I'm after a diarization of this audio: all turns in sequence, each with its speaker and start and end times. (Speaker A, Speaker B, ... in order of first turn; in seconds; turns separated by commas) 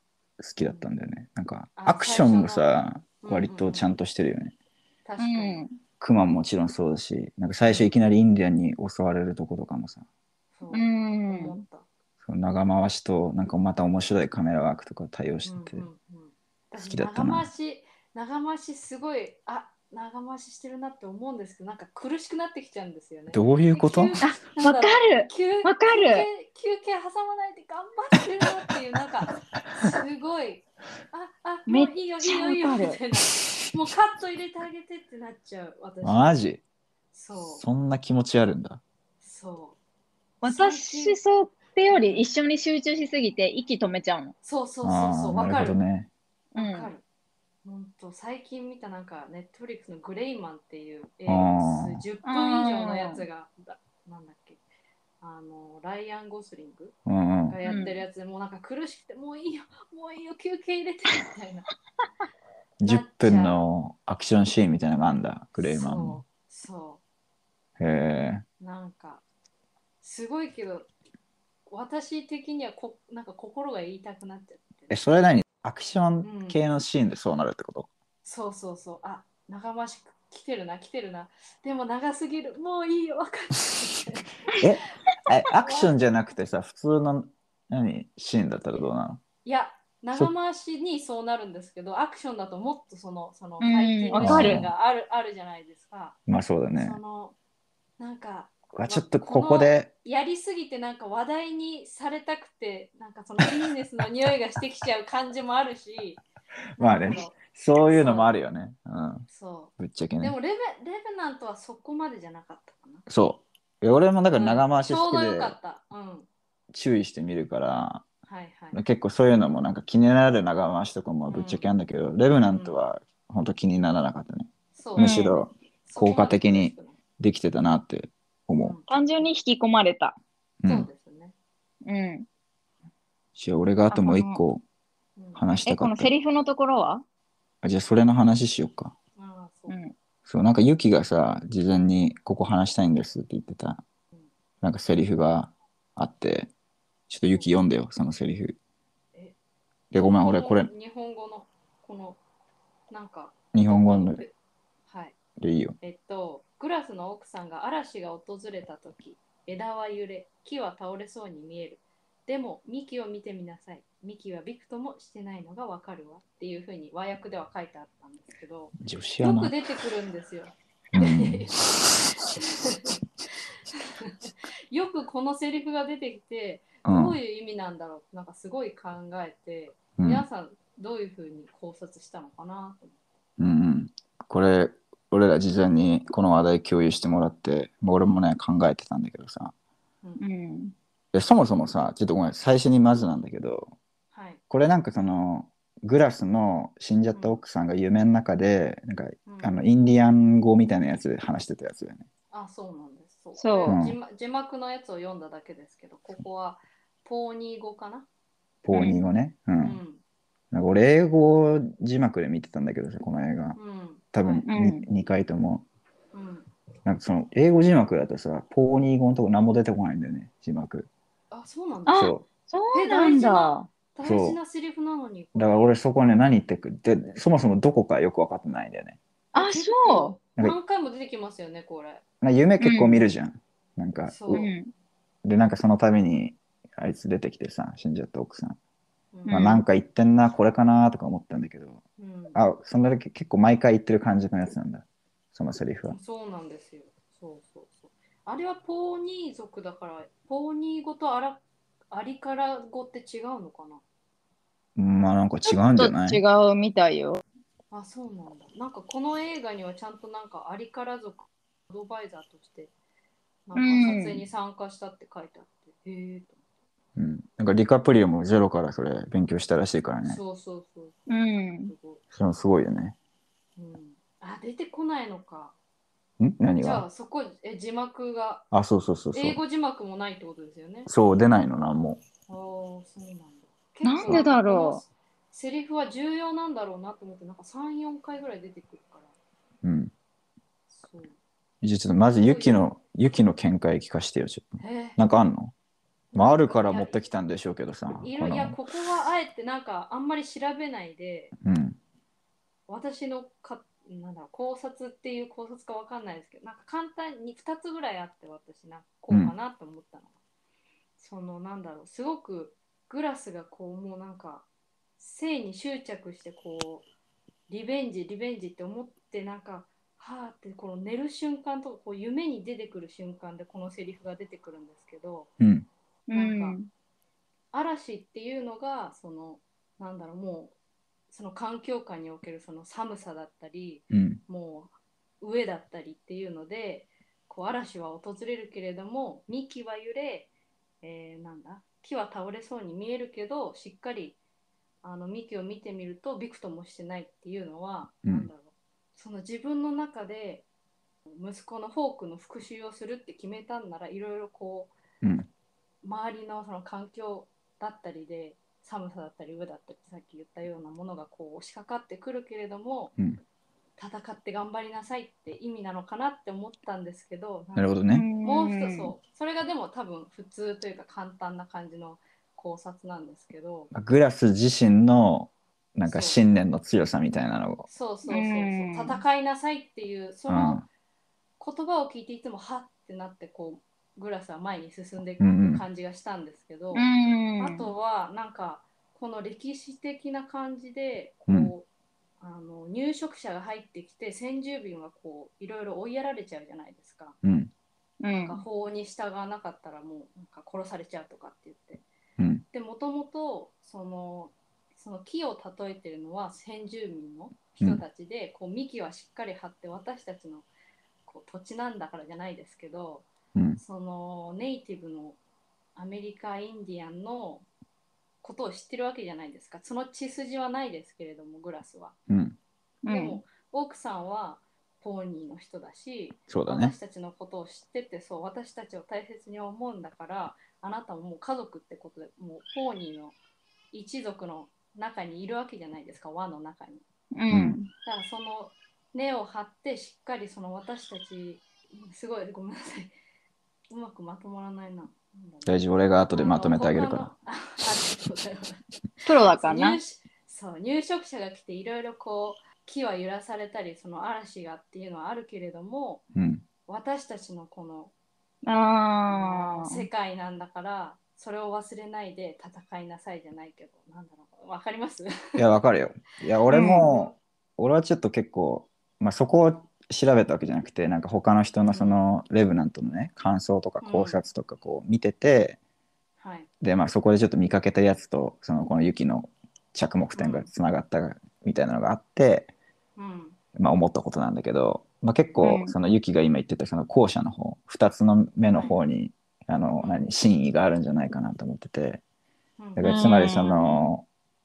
Speaker A: 0.4-4.5, Speaker B: 0.6-0.9, Speaker B: 1.8-2.7, Speaker B: 3.2-3.9, Speaker B: 5.0-5.7, Speaker C: 5.2-5.8, Speaker A: 6.0-10.0, Speaker B: 7.7-7.9, Speaker B: 10.5-11.9, Speaker C: 10.7-11.6, Speaker A: 12.2-15.8, Speaker B: 15.4-36.3, Speaker A: 16.8-17.5, Speaker A: 23.3-24.2, Speaker C: 24.2-26.3, Speaker C: 31.7-33.0, Speaker A: 36.0-36.6, Speaker B: 37.1-37.6, Speaker A: 37.4-38.8, Speaker B: 39.2-39.8, Speaker B: 40.4-41.2, Speaker C: 40.4-44.3, Speaker B: 41.9-42.3, Speaker B: 44.4-45.8, Speaker A: 44.8-46.1, Speaker B: 46.5-47.0, Speaker C: 46.5-46.9, Speaker B: 47.6-54.6, Speaker A: 51.3-52.0, Speaker C: 52.2-53.2, Speaker B: 55.2-56.9, Speaker A: 57.0-57.6, Speaker B: 57.5-61.7, Speaker C: 57.6-58.0, Speaker A: 62.8-66.2, Speaker B: 62.8-63.6, Speaker B: 65.6-67.0, Speaker A: 67.8-68.4, Speaker B: 68.6-69.2, Speaker B: 70.0-70.9, Speaker B: 71.7-75.0, Speaker A: 74.9-77.9, Speaker B: 76.2-76.6, Speaker B: 78.2-84.6, Speaker A: 84.6-89.2, Speaker B: 85.6-85.9, Speaker B: 89.4-96.2, Speaker C: 93.6-94.6, Speaker A: 94.2-94.7, Speaker A: 96.3-97.0, Speaker B: 96.8-97.3, Speaker B: 98.0-106.2, Speaker A: 98.7-99.9, Speaker A: 106.8-109.2, Speaker B: 106.8-107.4, Speaker B: 107.9-108.3, Speaker B: 109.3-113.0, Speaker A: 109.8-110.3, Speaker A: 113.1-115.5, Speaker B: 114.3-116.3, Speaker A: 116.7-118.0, Speaker B: 118.3-118.8, Speaker A: 118.7-128.7, Speaker B: 121.3-121.7, Speaker B: 122.5-122.8, Speaker B: 124.7-125.3, Speaker C: 125.0-125.4, Speaker B: 125.8-127.0, Speaker B: 128.6-128.9, Speaker C: 128.9-130.2, Speaker A: 130.6-130.9, Speaker B: 130.6-131.3, Speaker C: 131.8-132.3, Speaker A: 133.3-134.6, Speaker C: 133.9-134.4, Speaker B: 135.2-135.5, Speaker A: 135.3-136.1, Speaker C: 135.7-137.0, Speaker A: 137.6-138.9, Speaker B: 139.2-139.8, Speaker C: 139.7-139.9, Speaker A: 140.2-143.8, Speaker A: 144.6-146.5, Speaker A: 147.1-148.6, Speaker A: 149.9-150.7, Speaker B: 150.0-152.2, Speaker B: 152.9-154.3, Speaker A: 153.5-154.2, Speaker B: 154.9-155.2, Speaker A: 155.4-155.8, Speaker B: 155.8-173.0, Speaker A: 168.8-169.5, Speaker A: 170.9-172.4, Speaker B: 173.7-183.0, Speaker A: 176.8-177.2, Speaker A: 180.0-180.2, Speaker A: 183.4-189.5, Speaker C: 190.2-190.7, Speaker A: 191.1-193.7, Speaker B: 194.1-194.4, Speaker A: 194.5-202.0, Speaker B: 197.1-197.4, Speaker B: 199.2-199.6, Speaker B: 202.3-208.1, Speaker C: 203.4-203.8, Speaker A: 203.7-204.0, Speaker A: 208.6-209.8, Speaker C: 208.7-209.0, Speaker B: 209.6-210.0, Speaker A: 210.5-213.6, Speaker B: 213.6-214.5, Speaker A: 214.1-215.7, Speaker C: 214.5-214.8, Speaker B: 216.1-216.5, Speaker A: 216.8-220.9, Speaker B: 221.3-222.1, Speaker C: 221.9-223.7, Speaker A: 221.9-222.2, Speaker B: 222.7-225.8, Speaker A: 224.0-224.4, Speaker A: 225.3-229.0, Speaker C: 229.3-230.2, Speaker B: 229.3-232.0, Speaker A: 232.2-234.4, Speaker C: 232.6-233.0, Speaker B: 234.1-234.5, Speaker C: 234.3-234.7, Speaker A: 235.2-238.6, Speaker B: 239.1-239.5, Speaker C: 239.3-239.6, Speaker A: 239.3-241.8, Speaker B: 242.0-242.4, Speaker A: 242.3-246.0, Speaker B: 245.9-253.8, Speaker A: 254.8-256.2, Speaker C: 255.4-257.2, Speaker B: 257.7-262.7, Speaker B: 263.5-266.4, Speaker C: 263.5-264.2, Speaker A: 266.9-270.2, Speaker B: 270.0-272.0, Speaker C: 271.1-271.7, Speaker A: 272.1-272.9, Speaker B: 273.6-275.5, Speaker A: 276.2-276.9, Speaker B: 276.6-278.4, Speaker A: 278.5-279.4, Speaker B: 279.1-280.9, Speaker A: 280.9-282.0, Speaker B: 282.3-289.1, Speaker C: 283.8-284.8, Speaker A: 289.6-289.9, Speaker B: 290.7-291.2, Speaker A: 291.6-295.5, Speaker B: 292.2-292.6, Speaker B: 294.6-295.0, Speaker B: 296.1-297.0, Speaker A: 296.1-298.6, Speaker B: 298.0-301.3, Speaker A: 301.4-301.8, Speaker B: 302.7-310.1, Speaker B: 311.0-314.4, Speaker B: 315.0-316.8, Speaker B: 317.5-325.3, Speaker A: 325.4-325.7, Speaker C: 326.1-326.7, Speaker B: 326.1-326.6, Speaker B: 327.5-330.5, Speaker B: 331.1-340.3, Speaker A: 333.9-334.2, Speaker B: 340.8-344.2, Speaker B: 344.8-350.4, Speaker A: 348.0-348.3, Speaker B: 351.1-354.7, Speaker A: 355.0-355.3, Speaker B: 355.8-362.9, Speaker B: 363.8-373.7, Speaker A: 367.5-368.1, Speaker C: 367.9-368.9, Speaker A: 373.7-377.6, Speaker B: 375.9-376.2, Speaker B: 377.6-380.6, Speaker C: 378.1-379.0, Speaker A: 380.3-380.6, Speaker B: 381.4-386.9, Speaker A: 385.2-385.6, Speaker C: 386.7-387.6, Speaker B: 387.4-391.7, Speaker B: 392.2-397.2, Speaker A: 397.2-397.5, Speaker C: 398.0-398.4, Speaker B: 398.2-401.8, Speaker A: 402.2-402.4, Speaker B: 402.5-410.5, Speaker B: 411.1-415.2, Speaker A: 413.3-413.6, Speaker B: 415.8-417.4, Speaker B: 418.2-421.9, Speaker A: 422.1-422.4, Speaker C: 422.8-423.2, Speaker B: 422.9-433.1, Speaker A: 426.3-426.8, Speaker B: 433.7-436.8, Speaker C: 437.1-437.7, Speaker A: 437.3-437.6, Speaker B: 437.8-442.9, Speaker B: 443.7-448.6, Speaker A: 445.4-447.1, Speaker C: 449.0-449.8, Speaker B: 449.3-456.0, Speaker A: 456.1-456.4, Speaker B: 456.7-457.9, Speaker C: 458.4-459.9, Speaker B: 459.1-465.4, Speaker A: 465.4-475.6, Speaker C: 466.5-466.9, Speaker B: 466.5-467.2, Speaker B: 471.6-472.0, Speaker B: 473.8-474.2, Speaker B: 476.2-476.5, Speaker A: 476.6-482.5, Speaker B: 480.1-480.5, Speaker B: 482.9-483.4, Speaker A: 483.5-492.0, Speaker C: 485.4-485.7, Speaker B: 488.5-488.8, Speaker B: 489.8-490.1, Speaker B: 492.6-493.4, Speaker A: 492.8-494.1, Speaker C: 492.8-493.8